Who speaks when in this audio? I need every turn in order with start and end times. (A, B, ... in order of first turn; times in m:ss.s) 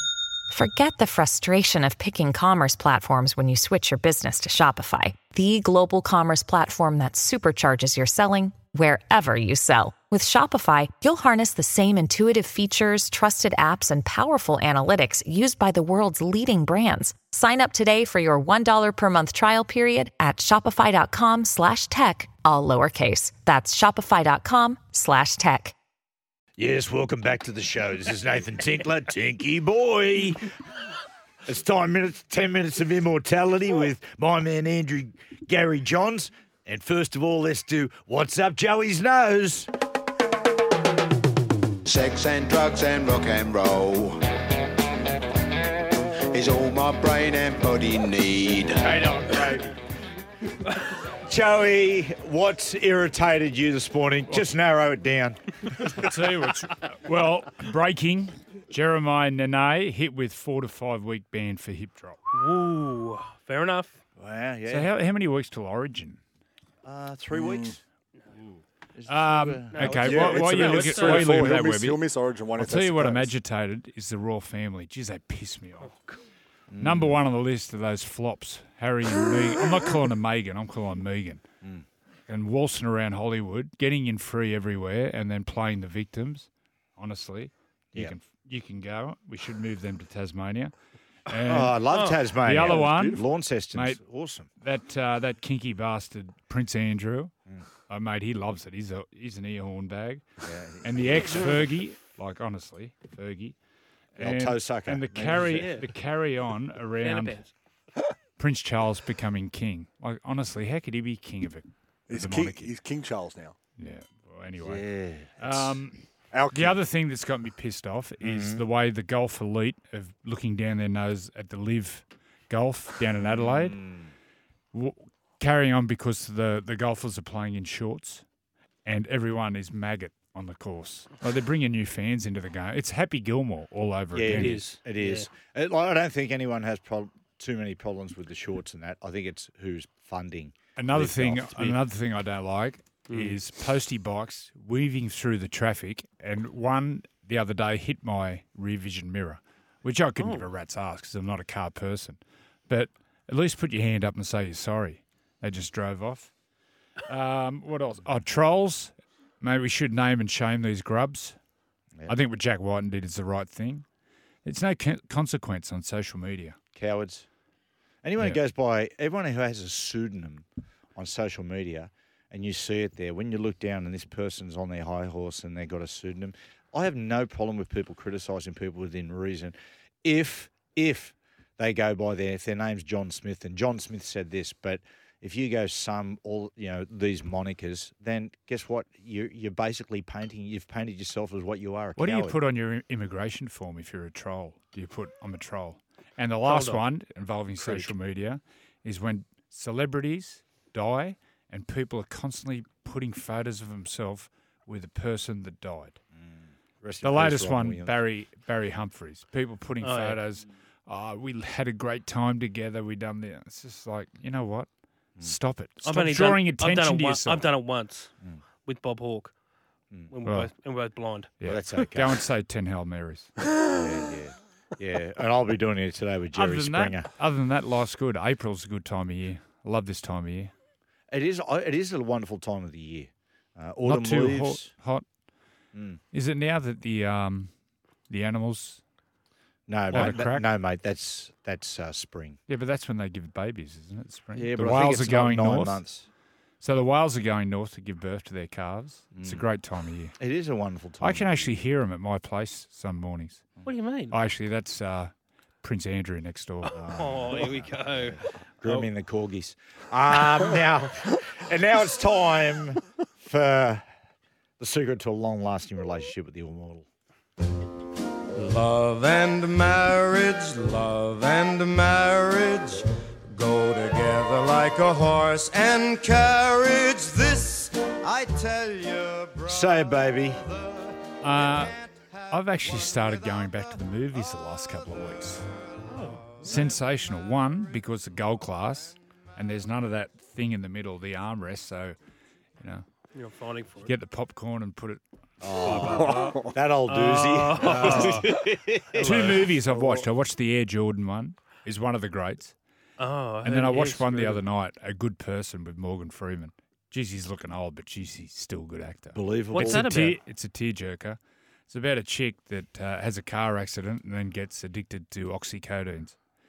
0:00.5-0:25.7 A
0:26.6-0:30.5 B
0:31.4-0:39.7 B
0:41.9-0:44.2 C
0:46.3-0:48.7 C
0:48.8-0:49.8 B
0:51.0-0:56.0 B
0:55.9-1:02.2 D
1:02.3-1:04.0 E
1:04.2-1:04.9 B
1:04.7-1:06.2 D
1:06.8-1:07.8 B
1:07.3-1:07.7 F
1:09.0-1:10.4 B
1:09.1-1:12.0 D
1:09.7-1:11.5 E
1:10.0-1:13.3 F
1:12.6-1:15.9 D
1:15.8-1:16.2 E
1:16.7-1:17.2 B
1:16.8-1:21.4 D
1:22.3-1:30.7 D
1:31.3-1:31.8 D
1:31.4-1:34.5 B
1:31.9-1:32.2 E
1:32.4-1:34.1 D
1:32.6-1:33.2 F
1:34.6-1:37.3 D
1:37.9-1:40.3 D
1:40.4-1:41.5 B
1:40.8-1:43.6 D
1:44.1-1:47.4 D
1:44.2-1:45.7 B
1:45.5-1:45.9 E
1:47.0-1:47.5 E
1:48.4-1:52.7 D
1:52.1-1:53.5 F
1:53.8-1:54.9 D
1:54.6-1:55.8 B
1:55.4-2:03.8 D
1:56.3-1:56.8 F
1:58.2-1:58.6 B
2:03.2-2:04.1 B
2:04.7-2:08.2 D
2:08.8-2:14.7 D
2:14.1-2:21.8 B
2:14.4-2:15.3 E
2:20.8-2:36.3 D
2:23.1-2:23.4 E
2:30.2-2:30.5 E
2:37.0-2:41.4 D
2:42.1-2:43.8 D
2:44.4-2:46.6 D
2:46.8-2:47.3 B
2:48.0-3:12.4 B
3:12.0-3:26.0 D
3:16.4-3:16.9 E
3:17.6-3:17.9 E
3:26.2-3:28.0 B
3:27.0-3:37.5 D
3:29.8-3:30.2 E
3:35.8-3:38.1 E
3:38.6-3:39.3 E
3:40.1-3:41.4 E
3:40.2-3:40.5 D
3:41.4-3:43.3 D
3:41.4-3:42.2 B
3:43.6-3:47.1 B
3:46.3-3:50.5 D
3:51.1-3:54.7 B
3:53.8-3:55.0 D
3:55.7-3:56.0 B
3:56.1-3:57.5 D
3:58.1-3:58.8 D
3:59.7-4:02.4 B
3:59.9-4:00.5 D
4:02.5-4:05.8 D
4:04.3-4:06.0 B
4:06.6-4:10.2 D
4:09.1-4:09.4 B
4:10.2-4:11.5 B
4:11.0-4:13.6 D
4:13.6-4:14.2 E
4:14.1-4:16.8 D
4:16.7-4:23.8 B
4:16.9-4:18.9 E
4:24.6-4:26.8 B
4:28.3-4:40.1 G
4:39.4-4:40.4 B
4:41.2-4:41.7 D
4:42.3-4:45.4 D
4:45.9-4:46.3 E
4:46.4-4:52.0 D
4:52.6-4:52.9 D
4:53.1-4:53.9 E
4:53.8-4:55.0 D
4:55.4-4:59.4 B
4:55.6-4:56.3 D
4:55.7-4:56.4 E
4:55.8-4:56.5 F
4:56.9-4:58.4 E
4:57.6-4:58.3 D
4:58.9-5:02.5 D
4:59.0-4:59.5 E
4:59.7-5:00.0 F
5:03.0-5:04.4 E
5:03.4-5:16.2 D
5:09.1-5:09.9 B
5:09.5-5:10.2 E